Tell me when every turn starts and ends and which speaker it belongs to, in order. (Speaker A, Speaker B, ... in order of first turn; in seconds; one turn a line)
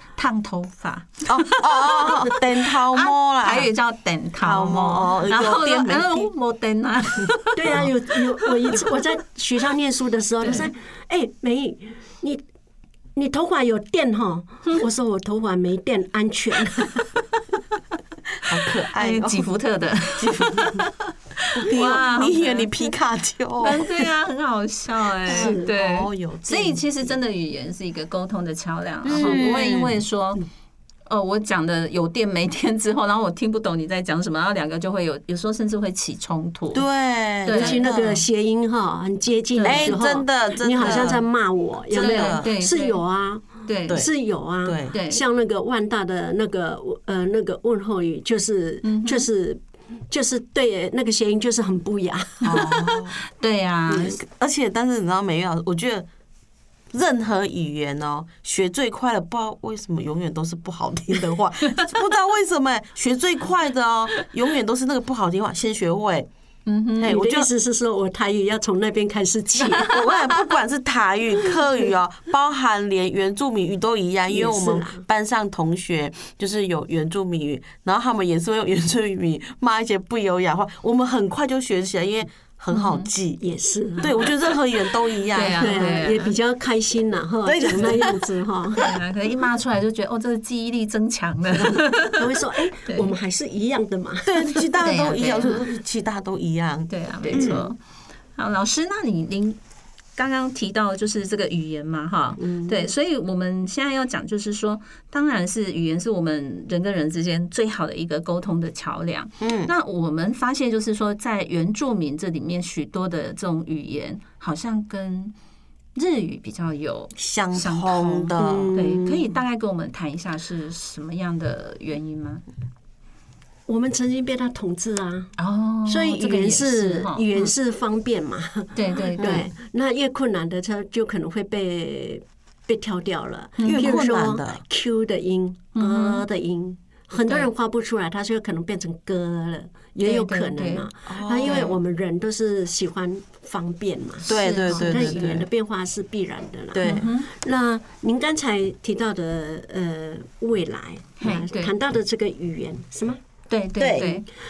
Speaker A: 0.2-7.9
Speaker B: 1.3-3.7
Speaker B: 4.4-6.3
Speaker C: 7.5-12.4
Speaker A: 10.4-10.7
Speaker C: 13.2-17.1
Speaker B: 18.4-19.5
Speaker A: 18.9-22.7
Speaker B: 20.1-20.8
Speaker B: 21.6-23.9
Speaker A: 23.6-30.4
Speaker B: 25.3-27.2
Speaker C: 25.3-25.7
Speaker B: 29.0-30.0
Speaker C: 29.1-29.4
Speaker A: 31.1-36.8
Speaker B: 36.7-38.2
Speaker A: 37.5-37.9
Speaker C: 37.5-52.7
Speaker A: 39.5-40.0
Speaker B: 39.6-41.3
Speaker A: 40.8-41.1
Speaker B: 41.9-42.5
Speaker A: 41.9-43.0
Speaker A: 43.7-44.0
Speaker B: 44.6-44.9
Speaker A: 44.9-45.2
Speaker A: 48.8-49.3
Speaker B: 52.5-53.2
Speaker A: 52.5-54.2
Speaker C: 53.9-54.2
Speaker B: 54.0-56.1
Speaker B: 56.9-66.3
Speaker A: 66.7-67.1
Speaker B: 67.0-67.5
Speaker C: 67.0-69.9
Speaker B: 69.8-83.4
Speaker C: 74.3-75.0
Speaker A: 82.7-83.1
Speaker C: 83.4-84.3
Speaker B: 84.0-86.1
Speaker A: 85.3-86.3
Speaker C: 85.5-88.9
Speaker B: 87.4-88.3
Speaker A: 88.8-92.2
Speaker C: 92.1-94.6
Speaker A: 92.8-93.1
Speaker B: 94.3-97.7
Speaker A: 94.8-95.7
Speaker A: 96.9-97.8
Speaker C: 97.3-97.7
Speaker A: 98.4-99.6
Speaker A: 100.2-115.3
Speaker C: 102.4-102.9
Speaker B: 109.4-109.7
Speaker A: 116.0-122.4
Speaker B: 117.2-118.8
Speaker C: 118.4-119.2
Speaker C: 123.7-125.3
Speaker A: 125.4-127.5
Speaker C: 125.9-153.2
Speaker A: 128.8-129.4
Speaker A: 133.6-134.1
Speaker B: 133.7-134.6
Speaker A: 135.8-136.2
Speaker A: 140.0-140.9
Speaker B: 141.1-141.7
Speaker A: 141.4-141.8
Speaker A: 144.3-145.3
Speaker B: 144.3-145.5
Speaker B: 146.7-147.1
Speaker A: 146.8-147.3
Speaker A: 151.2-151.7
Speaker A: 153.5-154.2
Speaker B: 153.8-154.1
Speaker C: 154.0-154.2